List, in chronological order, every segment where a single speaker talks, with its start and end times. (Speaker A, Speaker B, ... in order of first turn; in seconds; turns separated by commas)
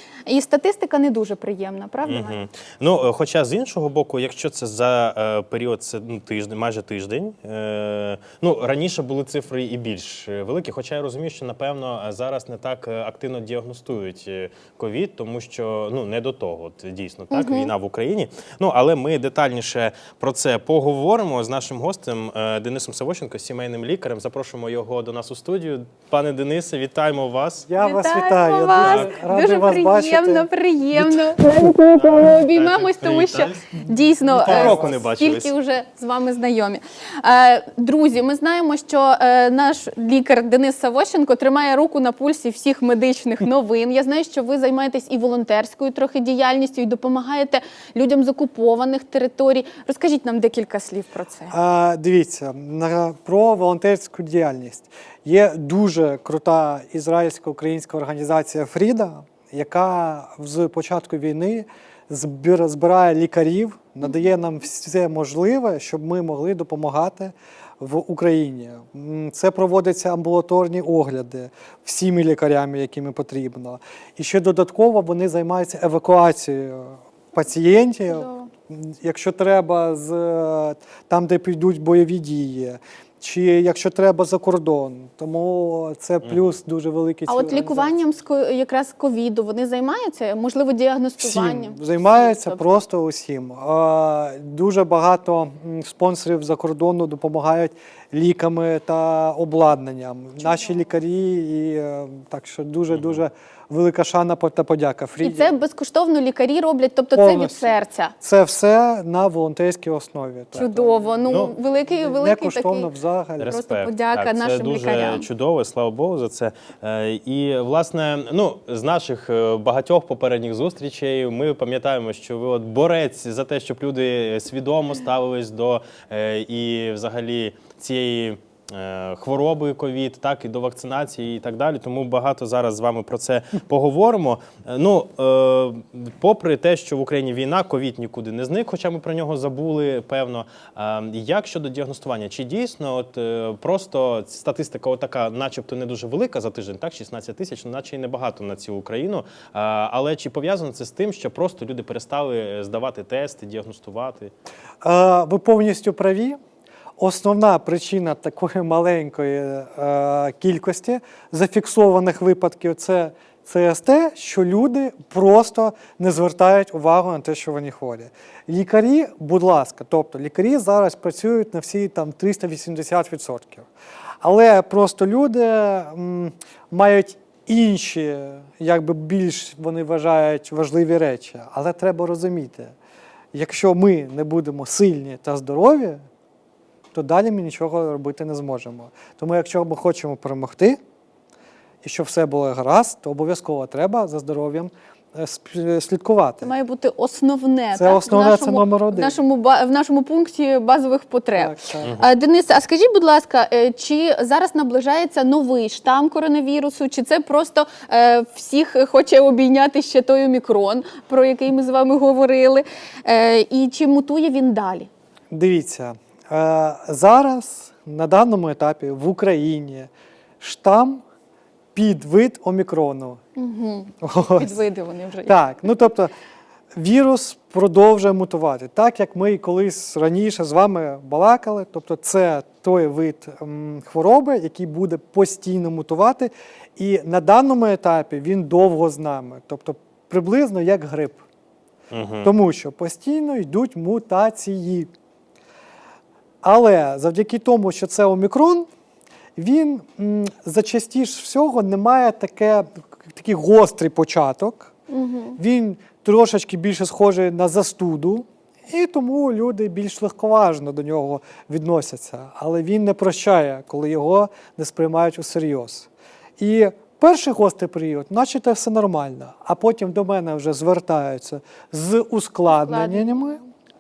Speaker A: 0.3-2.4, Speaker B: 2.0-27.7, Speaker A: 17.3-17.7, Speaker C: 27.7-31.7, Speaker A: 27.8-51.5, Speaker B: 28.8-29.2, Speaker B: 31.9-35.5, Speaker C: 33.9-35.0, Speaker C: 51.5-88.0, Speaker A: 78.1-78.5, Speaker B: 86.2-86.6, Speaker A: 87.3-92.7, Speaker C: 91.2-105.5, Speaker A: 100.4-100.8, Speaker B: 102.9-103.2, Speaker A: 105.2-108.1, Speaker C: 107.2-113.5, Speaker A: 110.5-112.9, Speaker B: 111.3-111.6, Speaker B: 113.4-154.3, Speaker A: 113.5-115.3, Speaker C: 154.8-156.4, Speaker C: 157.0-173.7, Speaker C: 174.2-182.7, Speaker C: 183.3-186.0, Speaker C: 186.9-190.8, Speaker C: 191.8-196.5, Speaker A: 196.4-214.9, Speaker C: 197.8-199.2, Speaker C: 201.3-202.0, Speaker B: 201.8-202.1, Speaker C: 215.3-221.0, Speaker C: 221.8-223.2, Speaker A: 223.4-225.4, Speaker C: 224.0-224.6, Speaker C: 225.3-226.1, Speaker C: 226.7-241.2, Speaker B: 241.9-242.3, Speaker C: 242.2-244.9, Speaker C: 246.4-248.7, Speaker C: 249.4-254.7, Speaker A: 254.9-255.4, Speaker C: 255.4-265.9, Speaker C: 266.4-273.4, Speaker A: 272.5-273.4